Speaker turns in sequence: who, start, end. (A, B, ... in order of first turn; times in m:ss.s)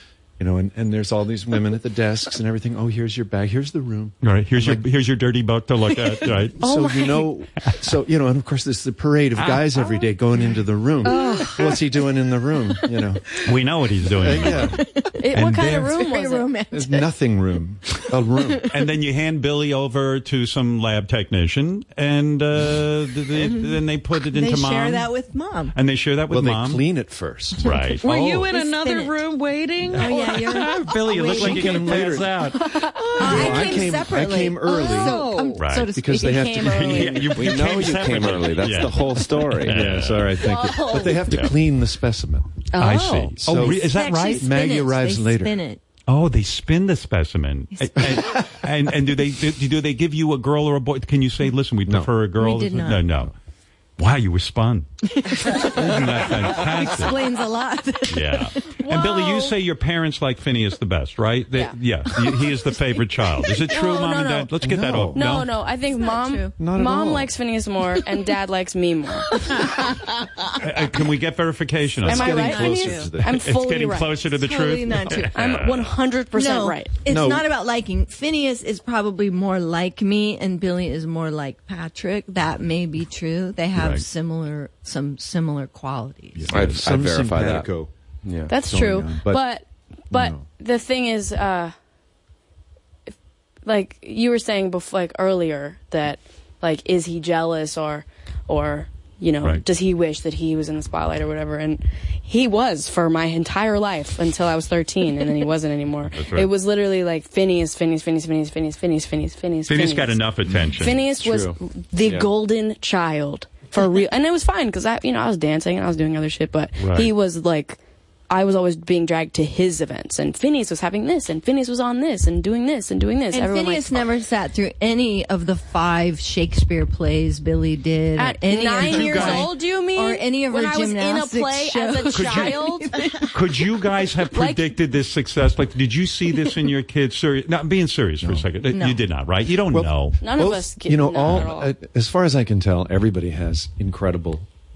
0:00.4-0:04.8 A
0:04.2-0:06.6 B
0:06.6-0:13.2 A
0:06.6-0:07.3 C
0:09.4-0:09.8 B
0:11.0-0:11.8 D
0:11.2-0:11.6 E
0:13.4-0:14.8 B
0:14.2-0:14.8 A
0:14.4-0:17.1 E
0:15.2-0:16.5 C
0:15.3-0:16.0 B
0:16.7-0:18.6 A
0:18.4-0:18.6 E
0:18.7-0:25.1 B
0:23.3-0:25.7 E
0:25.7-0:26.8 B
0:26.3-0:27.6 A
0:27.6-0:28.5 B
0:27.7-0:30.7 D
0:28.5-0:29.2 E
0:29.9-0:37.0 E
0:29.9-0:32.6 B
0:31.2-0:32.3 A
0:32.6-0:33.2 C
0:33.2-0:35.2 A
0:33.3-0:33.7 D
0:34.7-0:35.6 D
0:35.6-0:35.9 B
0:35.9-0:37.3 A
0:36.1-0:37.3 C
0:36.8-0:40.5 B
0:37.4-0:40.0 F
0:39.5-0:42.7 A
0:40.5-0:41.2 E
0:41.3-0:41.6 B
0:42.7-0:45.8 E
0:42.8-0:44.5 B
0:43.4-0:45.6 A
0:46.1-0:53.3 B
0:52.4-0:53.1 E
0:54.0-0:54.9 B
0:55.1-0:59.5 E
0:55.5-0:57.2 B
0:58.1-1:05.5 B
0:58.9-0:59.4 C
1:02.3-1:02.6 E
1:03.6-1:04.5 C
1:04.6-1:05.2 A
1:05.2-1:09.4 C
1:05.9-1:06.6 E
1:06.6-1:07.3 A
1:10.6-1:12.6 B
1:12.0-1:13.4 A
1:12.0-1:14.3 C
1:12.1-1:13.1 E
1:13.3-1:15.9 B
1:14.3-1:15.3 E
1:15.2-1:16.9 C
1:16.3-1:26.5 E
1:17.1-1:17.5 A
1:23.8-1:24.0 B
1:26.4-1:26.8 B
1:26.5-1:27.9 A
1:26.5-1:27.7 F
1:28.3-1:28.5 F
1:28.5-1:29.4 A
1:28.5-1:31.7 C
1:30.1-1:30.4 A
1:33.7-1:57.8 C
1:46.1-1:46.5 B
1:49.7-1:51.0 B
1:51.2-1:52.3 F
1:56.8-1:57.1 B
1:58.3-2:03.9 C
2:03.3-2:13.4 E
2:08.2-2:13.3 C
2:08.8-2:09.5 B
2:12.1-2:12.6 B
2:13.3-2:20.2 B
2:14.3-2:14.7 C
2:18.7-2:19.0 E
2:19.7-2:24.5 A
2:20.2-2:21.7 C